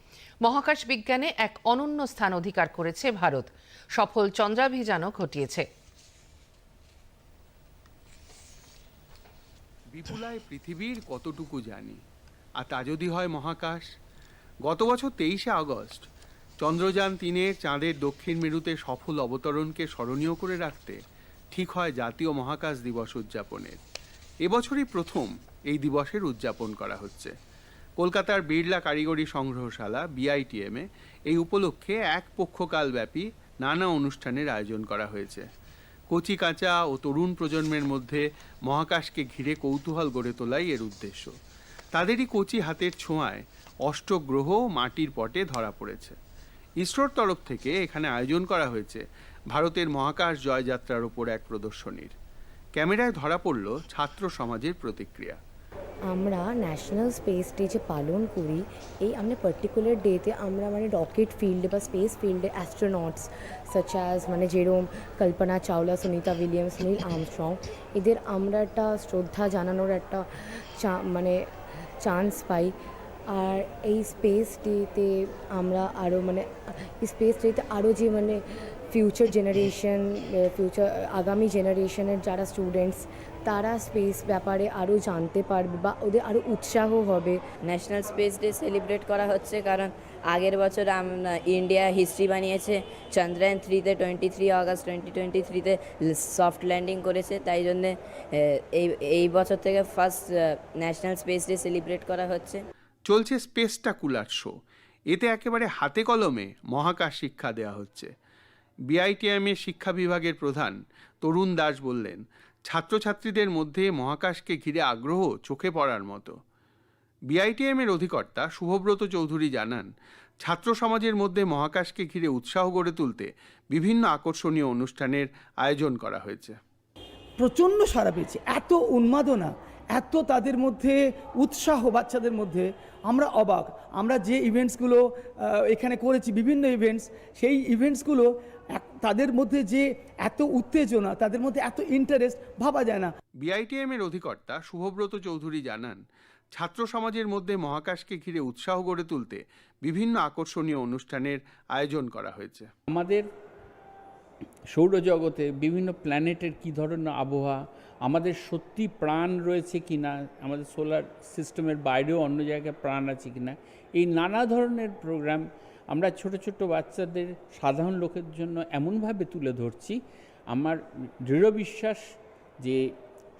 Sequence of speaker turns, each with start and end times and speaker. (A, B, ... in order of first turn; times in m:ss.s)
0:00.4-0:05.6 A
0:09.9-0:12.0 B
0:12.6-0:13.9 B
0:14.6-0:16.0 B
0:16.6-0:21.0 B
0:21.5-0:23.8 B
0:24.4-0:27.3 B
0:28.0-0:35.4 B
0:36.1-0:41.3 B
0:41.9-0:46.2 B
0:46.8-0:52.1 B
0:52.8-0:55.4 B
0:56.1-1:11.4 C
1:12.0-1:12.7 C
1:13.3-1:27.4 C
1:27.7-1:42.6 D
1:43.1-1:44.5 B
1:45.1-1:48.1 B
1:48.9-1:56.4 B
1:57.3-1:59.9 B
2:00.4-2:06.6 B
2:07.4-2:23.1 E
2:23.4-2:26.0 B
2:26.5-2:32.7 B
2:32.9-2:33.3 F
2:34.7-2:50.0 F
2:50.5-2:52.0 F